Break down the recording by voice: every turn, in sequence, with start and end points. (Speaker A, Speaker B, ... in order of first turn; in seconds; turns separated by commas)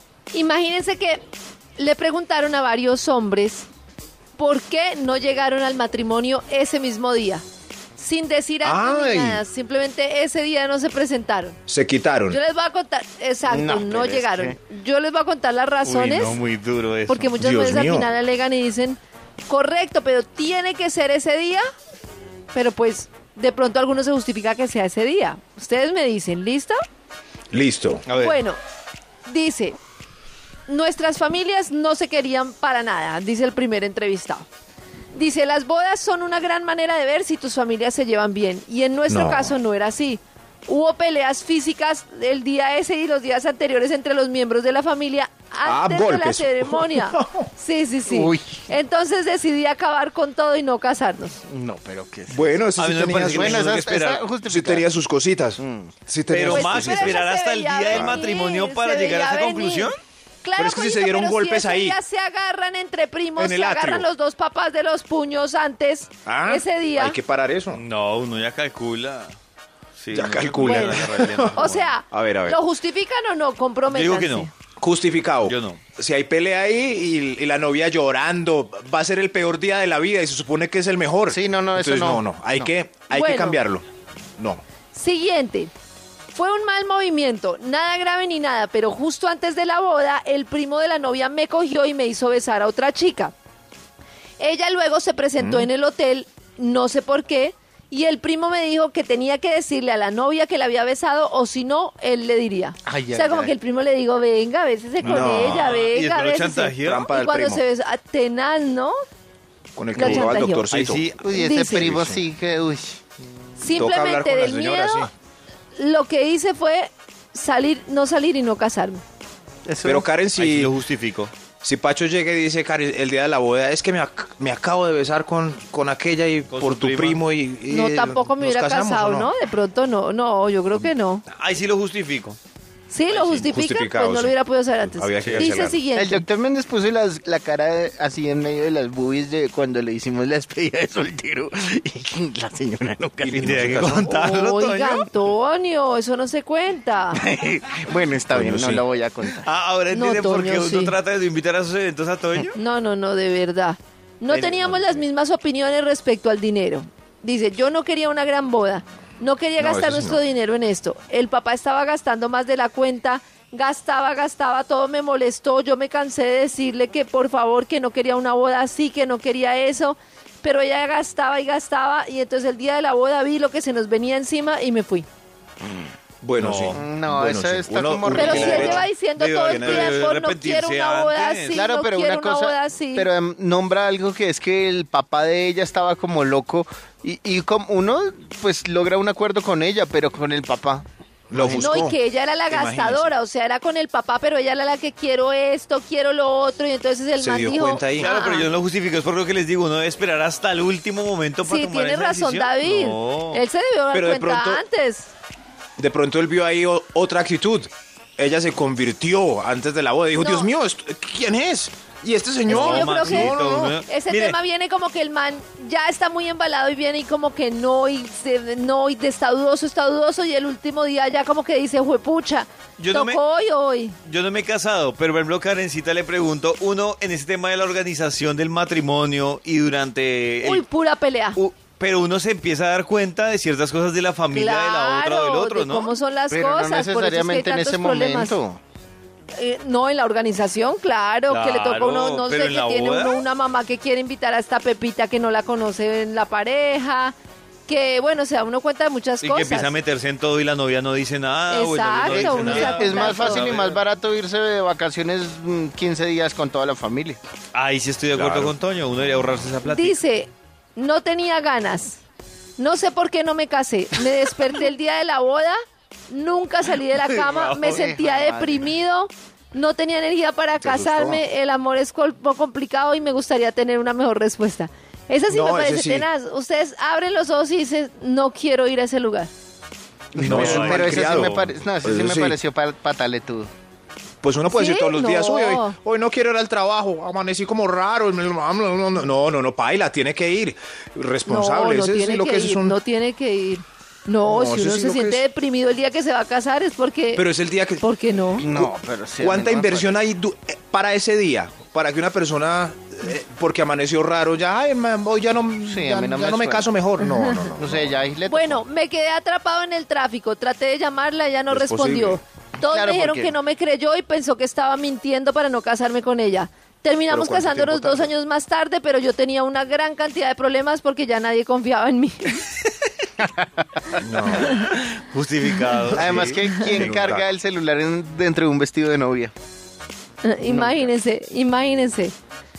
Speaker A: 0.3-1.2, Speaker A: 1.8-3.7, Speaker A: 4.4-7.4, Speaker A: 8.0-11.6, Speaker B: 8.6-9.4, Speaker B: 11.7-12.4, Speaker A: 12.3-16.4, Speaker C: 13.4-14.6, Speaker D: 15.8-17.4, Speaker A: 17.1-21.6, Speaker B: 17.4-18.1, Speaker A: 22.5-26.8, Speaker B: 27.5-28.1, Speaker D: 28.1-28.4, Speaker A: 28.1-28.6, Speaker A: 29.2-29.8, Speaker A: 30.7-34.5, Speaker A: 35.1-51.4, Speaker B: 39.1-39.5, Speaker B: 45.6-47.5, Speaker C: 48.1-48.6, Speaker C: 51.5-52.6, Speaker B: 52.3-57.2, Speaker D: 52.8-54.2, Speaker C: 53.3-54.9, Speaker C: 55.6-56.0, Speaker D: 56.3-60.0, Speaker A: 56.5-59.9, Speaker B: 57.9-58.2, Speaker A: 60.4-67.2, Speaker B: 60.6-62.0, Speaker B: 63.4-64.1, Speaker B: 66.2-67.8, Speaker D: 67.7-69.4, Speaker D: 70.0-71.9, Speaker B: 70.1-72.6, Speaker A: 70.6-74.5, Speaker D: 73.9-74.5, Speaker B: 74.8-83.8, Speaker D: 75.4-75.8, Speaker C: 81.3-82.7, Speaker A: 83.1-83.6, Speaker B: 84.4-84.6, Speaker A: 84.9-85.7, Speaker A: 86.3-93.3, Speaker A: 94.4-108.9, Speaker B: 95.4-95.7, Speaker C: 102.9-103.5, Speaker B: 105.0-105.7, Speaker D: 105.0-107.1, Speaker B: 106.8-107.6, Speaker B: 109.8-111.1, Speaker A: 110.0-110.7, Speaker D: 110.0-112.2, Speaker C: 111.2-113.0, Speaker A: 111.3-111.9, Speaker A: 113.6-115.1, Speaker B: 113.6-115.1, Speaker A: 115.8-119.0, Speaker C: 119.7-120.1, Speaker B: 119.8-120.7, Speaker D: 120.3-121.3, Speaker B: 121.6-129.3, Speaker D: 126.5-127.2, Speaker A: 127.7-131.2, Speaker D: 131.3-132.4, Speaker A: 132.9-136.3, Speaker D: 133.1-133.3, Speaker B: 133.1-135.8, Speaker D: 135.2-135.5, Speaker C: 135.9-144.0, Speaker B: 143.2-144.1, Speaker D: 143.4-145.1, Speaker A: 144.0-147.2, Speaker C: 147.1-149.5, Speaker B: 148.3-148.8, Speaker D: 149.2-152.6, Speaker A: 149.9-150.9, Speaker A: 152.6-175.1, Speaker C: 154.3-155.0, Speaker B: 159.6-160.2, Speaker B: 176.2-178.9, Speaker D: 176.4-176.8, Speaker C: 176.7-178.9, Speaker D: 178.1-181.6, Speaker A: 178.1-183.1, Speaker B: 179.6-180.0, Speaker C: 181.5-190.9, Speaker B: 191.3-192.0, Speaker D: 191.3-191.8, Speaker A: 191.6-198.5, Speaker B: 192.5-193.1, Speaker B: 197.2-198.1, Speaker D: 198.0-203.4, Speaker A: 201.4-205.1, Speaker B: 203.9-204.6, Speaker B: 205.8-213.8, Speaker A: 210.2-210.5, Speaker A: 212.5-213.3, Speaker D: 212.5-214.4, Speaker A: 213.9-224.0, Speaker D: 222.8-223.2, Speaker D: 224.1-230.6, Speaker A: 230.4-231.4, Speaker D: 231.3-235.9, Speaker A: 234.3-238.4, Speaker C: 236.3-238.6, Speaker A: 239.3-247.2, Speaker D: 241.3-243.2, Speaker A: 247.7-249.7, Speaker D: 249.2-253.8, Speaker A: 251.5-253.6, Speaker C: 252.2-257.2, Speaker D: 257.5-260.0, Speaker B: 258.1-258.6, Speaker A: 259.7-262.0, Speaker A: 262.6-265.6, Speaker A: 266.1-279.3, Speaker C: 267.1-268.7, Speaker B: 270.6-271.2, Speaker B: 275.3-276.1, Speaker C: 280.1-283.5, Speaker B: 280.2-282.4, Speaker D: 280.2-281.5, Speaker B: 284.2-292.8, Speaker A: 284.5-285.8, Speaker A: 291.3-297.3, Speaker B: 294.2-295.2, Speaker B: 297.1-308.0, Speaker A: 297.8-298.5, Speaker C: 298.4-300.0, Speaker C: 305.6-306.8, Speaker C: 307.5-308.6, Speaker A: 308.3-322.5, Speaker B: 311.5-312.2, Speaker C: 312.6-313.4, Speaker B: 317.1-318.1, Speaker B: 323.9-324.7, Speaker D: 324.4-327.1, Speaker C: 325.8-329.3, Speaker B: 325.9-327.3, Speaker A: 330.2-332.1, Speaker C: 330.4-330.9